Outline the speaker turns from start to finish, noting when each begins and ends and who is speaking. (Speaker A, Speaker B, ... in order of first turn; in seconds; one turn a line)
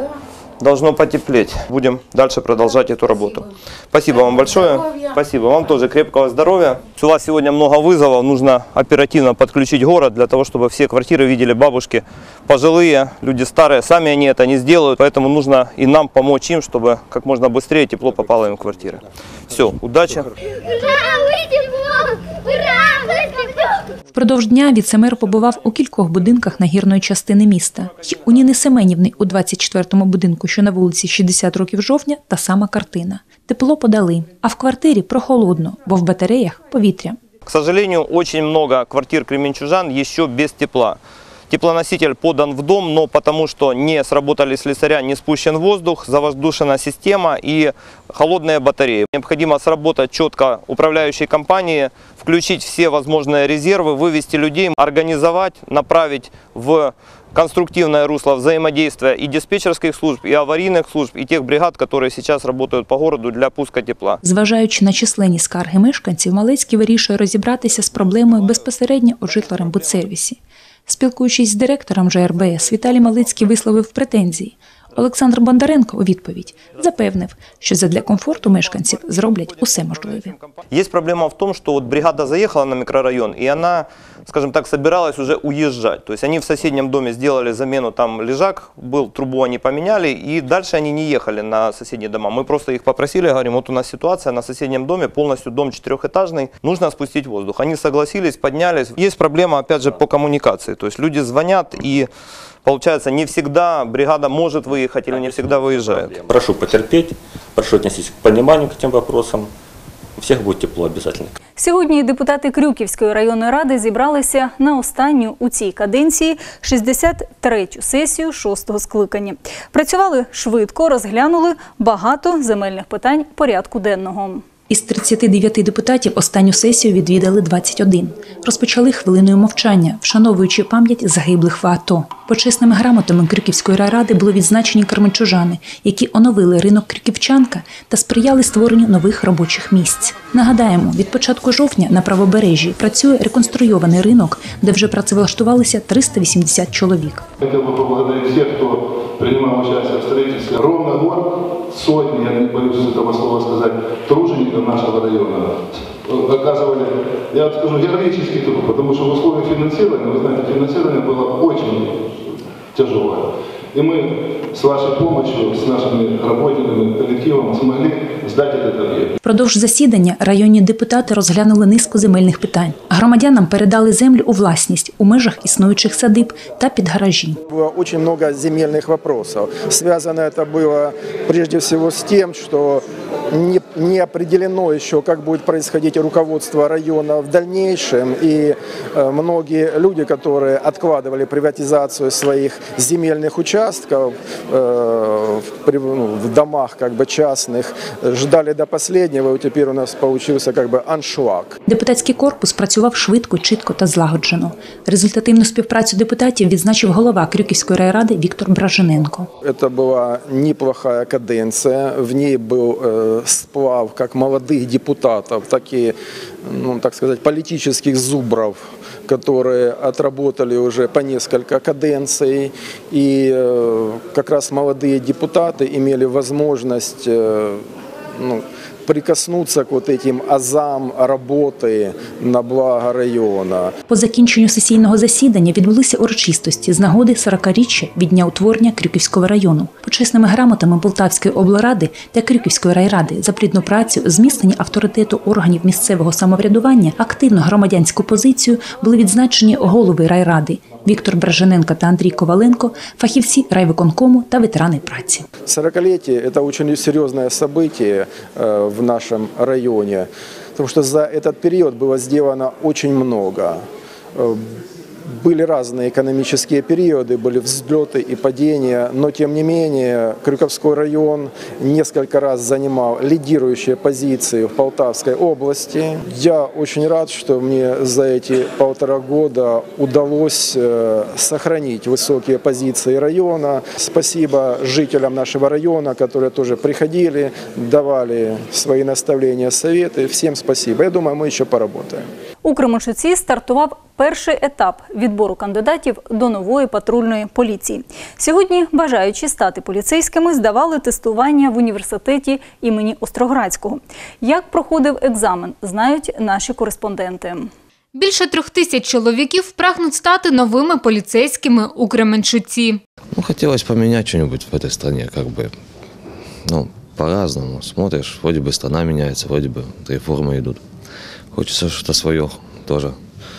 Speaker A: 0.6-20.3
Speaker B: 24.1-37.2
Speaker A: 37.5-41.0
Speaker A: 41.5-64.2
Speaker B: 64.2-80.3
Speaker A: 80.7-102.1
Speaker A: 102.7-106.2
Speaker C: 106.3-109.5
Speaker C: 110.2-111.3
Speaker D: 111.6-124.4
Speaker B: 124.7-147.2
Speaker E: 147.4-155.6
Speaker E: 156.1-161.8
Speaker E: 162.8-163.2
Speaker E: 163.8-169.1
Speaker B: 169.2-177.4
Speaker F: 177.5-201.6
Speaker B: 201.7-209.3
Speaker F: 209.4-227.7
Speaker F: 228.2-233.7
Speaker B: 233.9-255.2
Speaker F: 255.5-263.6
Speaker F: 264.2-264.4
Speaker F: 265.2-292.1
Speaker D: 292.4-307.5
Speaker G: 307.9-312.8
Speaker H: 313.1-315.5
Speaker H: 316.4-320.6
Speaker H: 321.3-323.0